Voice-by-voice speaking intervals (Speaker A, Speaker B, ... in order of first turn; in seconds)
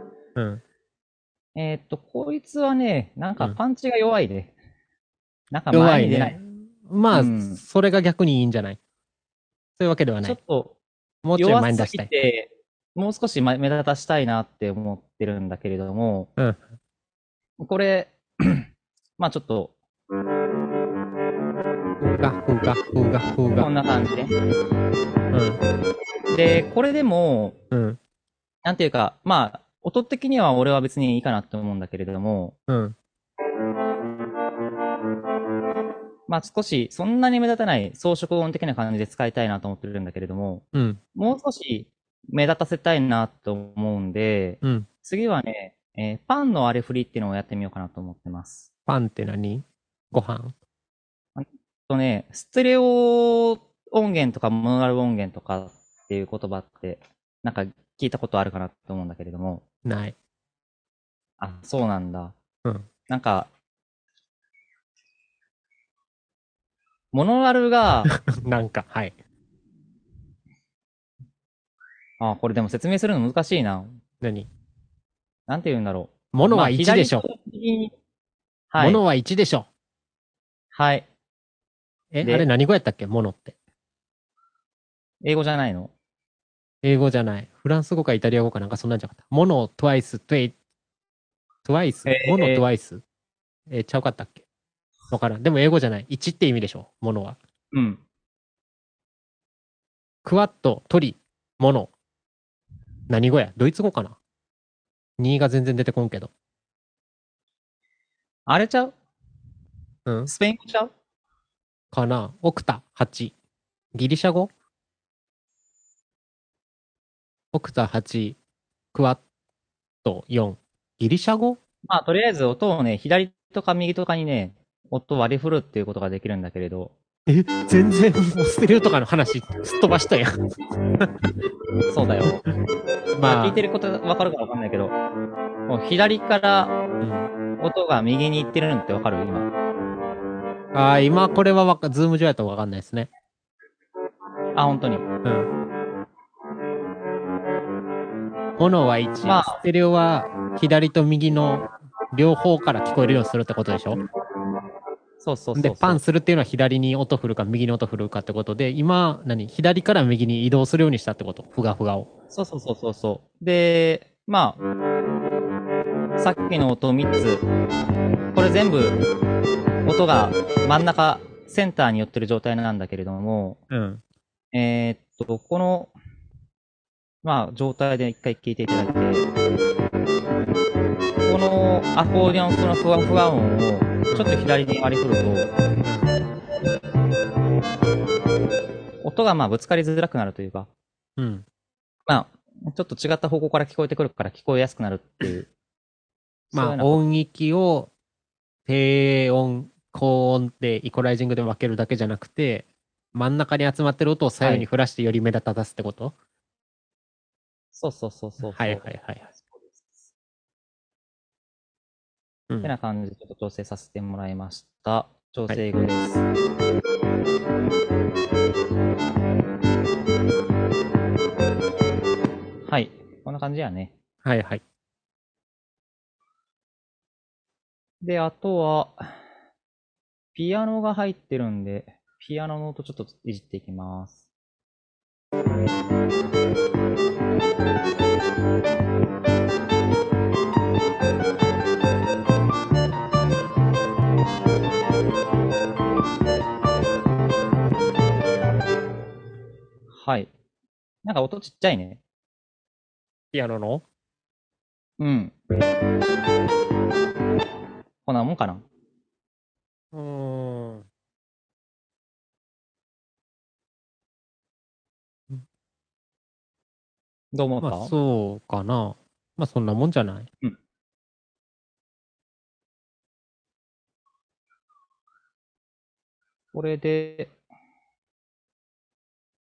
Speaker A: 0.4-0.6, 5.7-8.8, 9.8-10.4, 11.2-12.1, 22.0-23.7, 25.3-25.6, 27.7-28.0, 32.7-33.0, 40.7-41.0, 44.6-44.9, 48.9-50.5, 59.9-60.1, 68.1-69.1, 74.2-74.5, 76.3-77.2, 78.8-79.7, 82.1-83.5, 86.8-90.5, 91.7-93.0, 93.7-94.4, 95.1-97.4, 100.2-101.9, 103.1-104.2, 105.2-106.3, 110.1-110.3, 111.9-113.3, 113.9-114.5, 117.5-118.4, 118.9-119.2, 120.0-121.6, 127.3-130.4, 131.0-131.3, 133.2-133.6, 137.0-137.3, 140.7-143.1, 145.2-145.5, 148.6-154.0, 155.6-162.1, 173.7-174.0, 185.8-186.1, 191.2-191.4, 196.5-197.9, 198.7-206.2, 208.4-209.3, 224.2-224.6, 253.3-253.8, 259.9-260.8, 267.6-270.3
Speaker B: 1.6-4.5, 5.5-6.4, 7.1-7.6, 10.2-10.8, 11.4-16.3, 17.6-18.7, 19.2-19.7, 23.6-24.3, 26.3-27.6, 28.6-32.5, 36.3-40.6, 41.1-48.7, 51.4-59.6, 61.4-62.4, 63.1-63.5, 67.1-68.1, 72.2-74.0, 75.5-77.9, 78.7-79.0, 80.7-81.1, 85.2-85.9, 92.1-92.6, 97.7-98.0, 108.5-108.9, 110.3-110.9, 121.9-126.9, 131.9-132.4, 133.2-134.9, 135.7-136.8, 137.6-139.5, 144.6-145.1, 149.3-149.6, 155.2-156.0, 162.3-164.6, 166.2-167.4, 168.3-169.0, 169.9-173.6, 174.5-175.9, 177.2-179.3, 181.3-185.5, 189.0-190.7, 192.1-195.5, 196.5-197.1, 204.4-204.7, 207.7-210.1, 212.6-216.2, 222.7-223.9, 228.0-229.1, 230.3-234.2, 249.9-250.3, 251.0-252.0, 255.0-255.3, 258.1-258.6, 267.3-267.9, 276.5-277.3